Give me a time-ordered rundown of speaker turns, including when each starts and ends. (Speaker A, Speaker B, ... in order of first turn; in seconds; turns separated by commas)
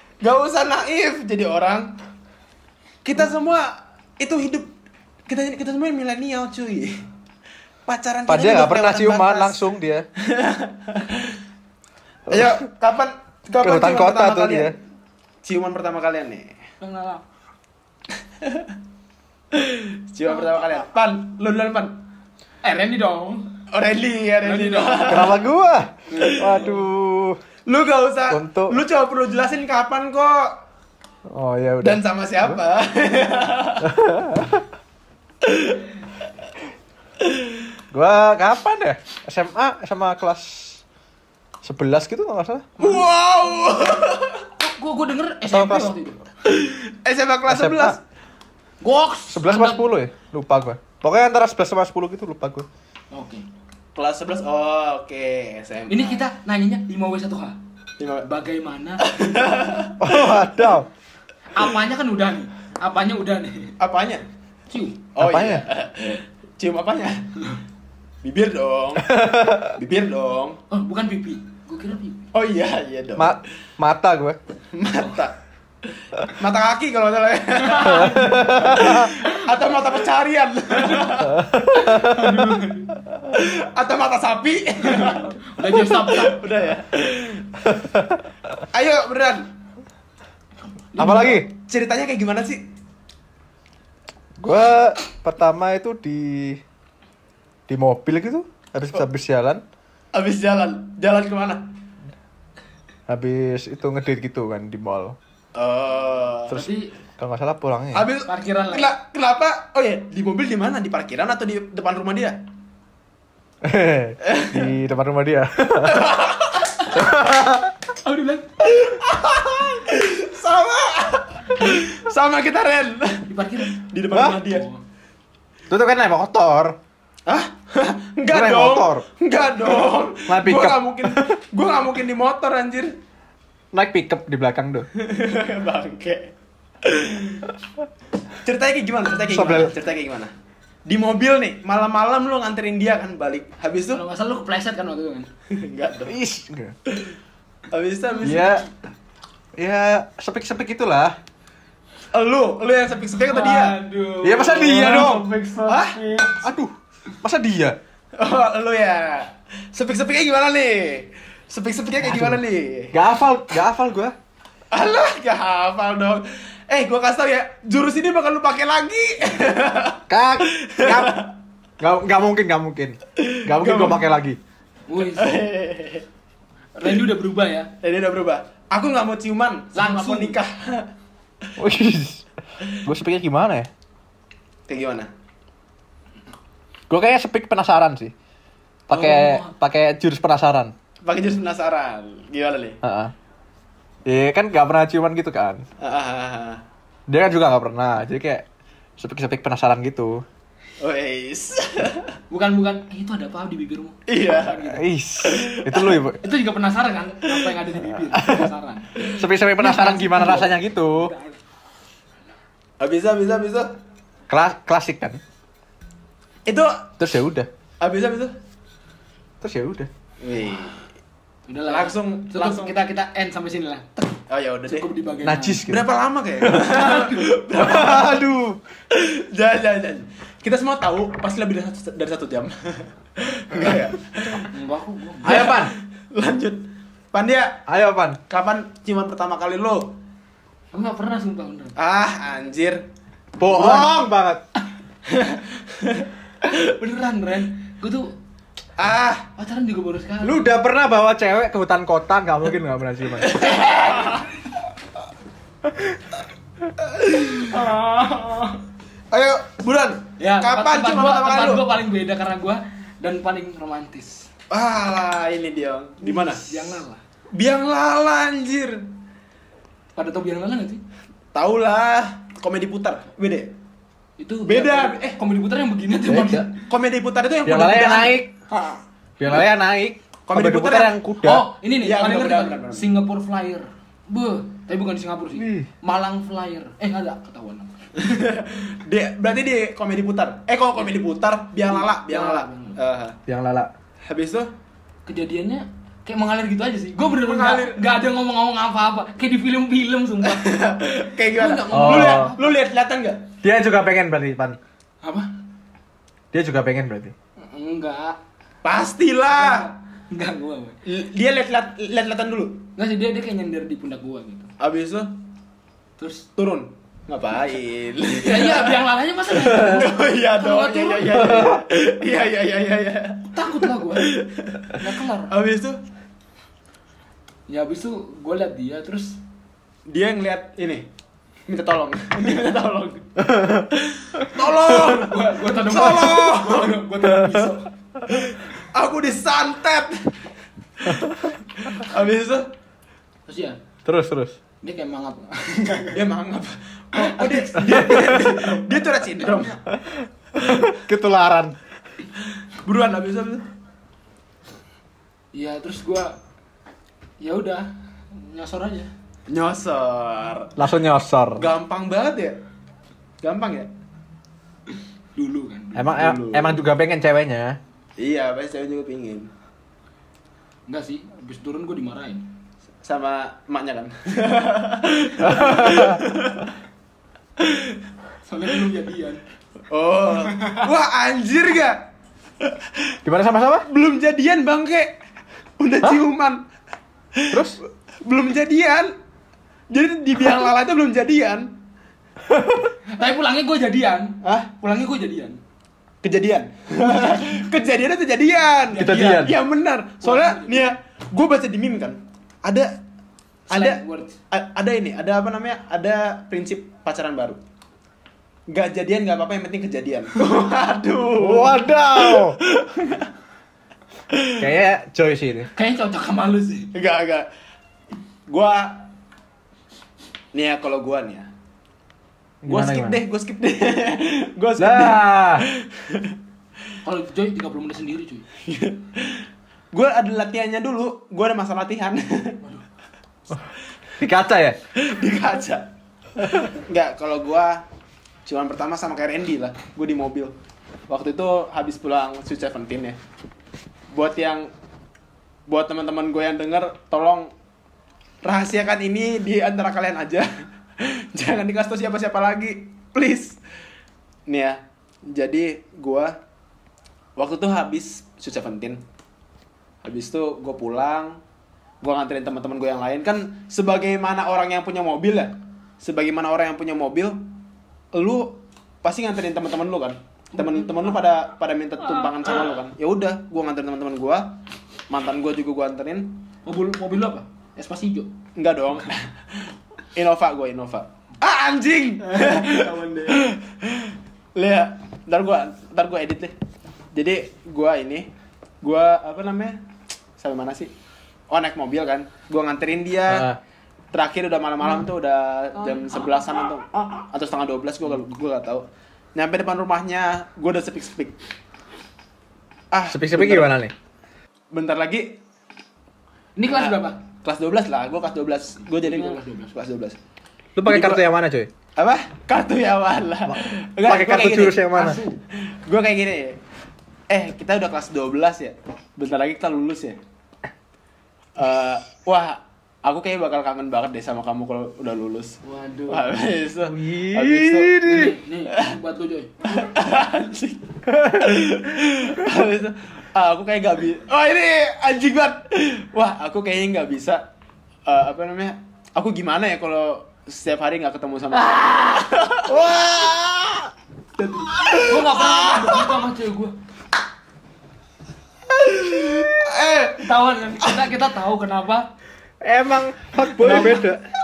Speaker A: 0.2-2.0, Speaker A: 3.0-4.7, Speaker A: 5.3-7.0, Speaker A: 7.9-9.6, Speaker B: 8.3-10.1, Speaker A: 10.2-11.4, Speaker A: 12.3-14.8, Speaker B: 12.3-12.6, Speaker B: 13.6-14.7, Speaker A: 15.4-16.6, Speaker C: 16.8-17.2, Speaker A: 18.4-18.7, Speaker A: 19.5-22.0, Speaker C: 20.3-20.8, Speaker C: 22.6-23.5, Speaker A: 23.7-25.4, Speaker C: 24.4-25.4, Speaker B: 25.1-27.4, Speaker C: 26.1-26.8, Speaker A: 26.2-26.5, Speaker A: 27.7-30.6, Speaker B: 28.3-28.8, Speaker B: 31.3-32.6, Speaker A: 31.8-34.0, Speaker B: 33.8-34.7, Speaker A: 35.4-35.8, Speaker B: 37.9-40.8, Speaker B: 41.6-42.7, Speaker A: 42.8-44.5, Speaker C: 44.6-46.2, Speaker B: 45.5-46.0, Speaker A: 46.5-48.0, Speaker B: 47.5-48.0, Speaker C: 48.8-49.8, Speaker B: 49.3-52.7, Speaker C: 53.1-53.5, Speaker A: 54.0-56.2, Speaker C: 55.9-57.6, Speaker A: 58.0-58.3, Speaker C: 58.2-59.1, Speaker A: 59.0-60.5, Speaker B: 60.0-60.9, Speaker C: 61.5-63.7, Speaker A: 63.8-64.2, Speaker C: 64.7-65.0, Speaker A: 65.2-67.3, Speaker B: 65.2-65.7, Speaker A: 68.2-69.1, Speaker B: 69.1-69.8, Speaker A: 69.7-70.6, Speaker C: 70.7-72.3, Speaker A: 72.3-73.4, Speaker B: 73.2-74.4, Speaker A: 74.7-75.3, Speaker A: 76.2-82.2, Speaker C: 77.6-80.0, Speaker B: 77.9-79.1, Speaker C: 80.7-82.9, Speaker B: 81.4-82.4, Speaker A: 83.3-87.8, Speaker C: 84.8-86.5, Speaker B: 87.7-88.2, Speaker A: 88.7-89.5, Speaker C: 91.0-91.3, Speaker B: 91.0-91.5, Speaker A: 91.0-92.6, Speaker B: 94.4-96.6, Speaker B: 97.7-99.6, Speaker A: 100.1-101.7, Speaker B: 103.1-105.2, Speaker A: 105.6-106.5, Speaker B: 106.5-108.1, Speaker C: 106.5-106.9, Speaker A: 107.9-112.4, Speaker C: 108.2-108.9, Speaker B: 113.6-116.1, Speaker A: 114.2-114.7, Speaker A: 115.8-117.1, Speaker B: 116.9-117.7, Speaker C: 118.0-118.5, Speaker A: 118.6-124.7, Speaker C: 123.3-124.8, Speaker B: 124.1-124.4, Speaker B: 125.7-126.8, Speaker A: 127.3-133.0, Speaker B: 128.3-129.1, Speaker B: 130.3-131.3, Speaker B: 133.7-134.9, Speaker A: 134.9-137.5, Speaker A: 138.4-140.3, Speaker B: 139.2-139.7, Speaker A: 140.9-144.0, Speaker C: 143.9-145.3, Speaker A: 145.5-146.2, Speaker B: 146.1-146.8, Speaker A: 146.9-147.2, Speaker A: 147.7-148.7, Speaker B: 148.2-148.7, Speaker B: 149.6-151.2, Speaker A: 152.1-153.8, Speaker C: 153.2-156.4, Speaker B: 154.2-155.3, Speaker A: 155.7-156.0, Speaker B: 156.4-157.8, Speaker A: 158.2-163.0, Speaker B: 162.0-162.4, Speaker B: 162.9-164.1, Speaker A: 164.7-171.3, Speaker B: 170.1-171.2, Speaker B: 171.8-174.4, Speaker A: 173.2-174.0, Speaker C: 174.9-175.4, Speaker A: 175.0-176.1, Speaker C: 176.8-177.7, Speaker A: 177.8-180.9, Speaker C: 179.8-180.4, Speaker B: 181.6-183.7, Speaker A: 184.7-185.1, Speaker B: 186.9-188.1, Speaker B: 188.9-190.7, Speaker C: 188.9-189.5, Speaker A: 191.1-192.8, Speaker B: 192.8-193.1, Speaker B: 194.1-195.7, Speaker A: 195.8-196.6, Speaker B: 197.1-198.4, Speaker B: 199.0-200.2, Speaker A: 200.8-202.2, Speaker C: 202.3-204.8, Speaker A: 204.1-205.9, Speaker B: 204.6-206.2, Speaker C: 206.2-211.4, Speaker B: 208.0-208.5, Speaker B: 209.1-211.1, Speaker A: 212.8-213.7, Speaker B: 214.3-215.2, Speaker A: 216.5-216.8, Speaker B: 217.0-217.5, Speaker A: 217.8-218.3, Speaker B: 219.4-219.9, Speaker A: 220.2-220.9, Speaker C: 221.5-224.0, Speaker A: 221.7-222.8, Speaker A: 224.3-224.9, Speaker C: 224.7-225.7, Speaker B: 225.2-225.9, Speaker A: 225.7-228.2, Speaker B: 226.4-226.8, Speaker C: 226.8-227.2, Speaker B: 227.6-228.6, Speaker A: 228.9-234.5, Speaker C: 234.5-235.6, Speaker B: 235.2-235.7, Speaker A: 235.2-237.6, Speaker B: 237.7-238.2, Speaker A: 238.3-239.9, Speaker C: 240.7-241.7, Speaker A: 241.8-242.8, Speaker B: 243.4-244.4, Speaker A: 243.4-244.0, Speaker A: 245.1-246.1, Speaker C: 246.4-248.1, Speaker A: 248.8-249.3, Speaker C: 249.4-250.5, Speaker B: 250.2-253.5, Speaker A: 253.2-254.3, Speaker C: 253.8-254.1, Speaker A: 256.8-257.5, Speaker C: 257.4-258.6, Speaker A: 259.1-261.6, Speaker C: 260.2-264.3, Speaker A: 264.5-266.6, Speaker C: 266.0-267.0, Speaker A: 267.3-268.9, Speaker C: 269.9-270.8, Speaker A: 271.4-273.5, Speaker C: 274.2-276.6, Speaker A: 274.4-275.2, Speaker B: 276.1-276.5, Speaker A: 276.6-278.2, Speaker B: 277.5-278.3, Speaker C: 278.5-279.4, Speaker B: 279.2-281.5, Speaker A: 280.3-281.0, Speaker C: 281.2-287.8, Speaker A: 281.8-282.9, Speaker B: 285.4-285.7, Speaker A: 288.0-293.2, Speaker C: 291.7-292.8, Speaker B: 293.3-293.7, Speaker A: 294.1-294.5, Speaker C: 295.1-300.6, Speaker A: 297.1-297.8, Speaker A: 300.2-303.3, Speaker C: 301.4-302.5, Speaker B: 301.7-302.3, Speaker B: 303.4-304.6, Speaker C: 305.0-305.3, Speaker B: 306.3-307.1, Speaker C: 307.4-308.2, Speaker A: 308.6-309.7, Speaker C: 309.4-310.8, Speaker A: 310.9-312.7, Speaker C: 312.8-314.5, Speaker A: 314.6-315.1, Speaker C: 316.0-316.3, Speaker A: 316.4-318.8, Speaker C: 318.1-321.3, Speaker A: 319.4-325.8, Speaker B: 321.1-321.6, Speaker C: 323.3-324.1, Speaker C: 324.7-325.3, Speaker C: 327.5-329.2, Speaker A: 329.9-330.9, Speaker A: 331.5-333.1, Speaker B: 333.2-333.7, Speaker A: 333.7-336.8, Speaker C: 334.4-337.7, Speaker B: 337.1-337.4, Speaker A: 338.1-340.2, Speaker A: 340.8-342.5, Speaker C: 343.3-343.6, Speaker B: 343.9-344.4, Speaker C: 344.6-346.0, Speaker A: 345.9-349.6, Speaker C: 346.9-348.6, Speaker B: 347.7-348.3, Speaker C: 349.2-349.5, Speaker A: 350.4-350.7, Speaker B: 350.4-351.6, Speaker A: 352.6-353.4, Speaker C: 355.3-356.1, Speaker C: 357.2-358.9, Speaker A: 359.3-360.6, Speaker B: 360.6-361.4, Speaker A: 361.4-362.4, Speaker A: 363.2-363.7, Speaker C: 365.2-366.1, Speaker B: 365.8-367.6, Speaker A: 365.9-366.6, Speaker A: 368.0-369.3, Speaker C: 370.7-372.2, Speaker A: 372.8-376.5, Speaker B: 375.2-376.0, Speaker A: 377.4-377.8, Speaker C: 378.2-379.2, Speaker A: 379.7-381.8, Speaker C: 380.3-380.7, Speaker B: 383.1-383.6, Speaker A: 383.7-385.0, Speaker A: 385.6-386.4, Speaker B: 387.3-387.6, Speaker A: 388.1-388.9, Speaker A: 389.7-391.5, Speaker B: 392.3-392.7, Speaker C: 392.9-395.4, Speaker A: 394.2-394.5, Speaker A: 396.0-402.7, Speaker C: 396.9-397.2, Speaker C: 398.7-399.4, Speaker B: 398.8-399.4, Speaker C: 400.0-400.7, Speaker A: 403.5-407.4, Speaker C: 403.5-404.2, Speaker A: 408.5-413.1, Speaker B: 411.2-412.4, Speaker A: 414.1-414.4, Speaker B: 414.4-415.5, Speaker C: 415.6-416.7, Speaker A: 416.7-417.3, Speaker A: 418.3-418.9, Speaker A: 420.3-421.3, Speaker B: 422.4-423.0, Speaker A: 422.5-426.1, Speaker B: 424.6-425.5, Speaker C: 426.8-428.2, Speaker A: 428.4-432.4, Speaker B: 434.0-434.6, Speaker A: 434.8-435.7, Speaker A: 436.2-437.6, Speaker A: 438.2-440.3, Speaker A: 440.9-443.0, Speaker A: 443.9-444.5, Speaker A: 445.5-447.3, Speaker A: 448.2-450.3, Speaker A: 450.8-453.4, Speaker A: 454.3-456.1, Speaker A: 457.2-458.8, Speaker A: 459.9-461.2, Speaker A: 461.8-467.2, Speaker A: 467.9-474.4, Speaker C: 470.4-471.0, Speaker A: 474.9-476.2, Speaker C: 476.4-478.1, Speaker A: 478.4-486.3, Speaker C: 482.0-483.2, Speaker A: 486.9-488.1, Speaker A: 488.6-489.6, Speaker A: 490.2-490.7, Speaker A: 491.3-493.3, Speaker B: 493.1-493.4, Speaker A: 493.9-501.2, Speaker C: 495.6-496.1, Speaker A: 502.7-503.6, Speaker B: 502.9-503.7, Speaker A: 504.5-505.2, Speaker C: 506.4-507.0, Speaker A: 506.5-510.0, Speaker C: 508.8-509.6, Speaker B: 510.6-511.5, Speaker A: 510.7-511.1, Speaker A: 511.8-516.4, Speaker B: 513.3-515.0, Speaker C: 514.7-515.2, Speaker A: 517.1-520.0, Speaker A: 521.4-527.9, Speaker C: 525.4-526.1, Speaker B: 526.6-528.1, Speaker C: 527.8-529.7, Speaker A: 528.5-528.8, Speaker A: 529.5-537.2, Speaker B: 530.9-531.4, Speaker A: 537.9-542.9, Speaker B: 542.5-543.7, Speaker C: 544.2-546.5, Speaker A: 544.5-546.0, Speaker A: 548.5-550.1, Speaker C: 550.0-551.9, Speaker B: 552.4-554.0, Speaker A: 553.4-553.8, Speaker C: 553.5-553.8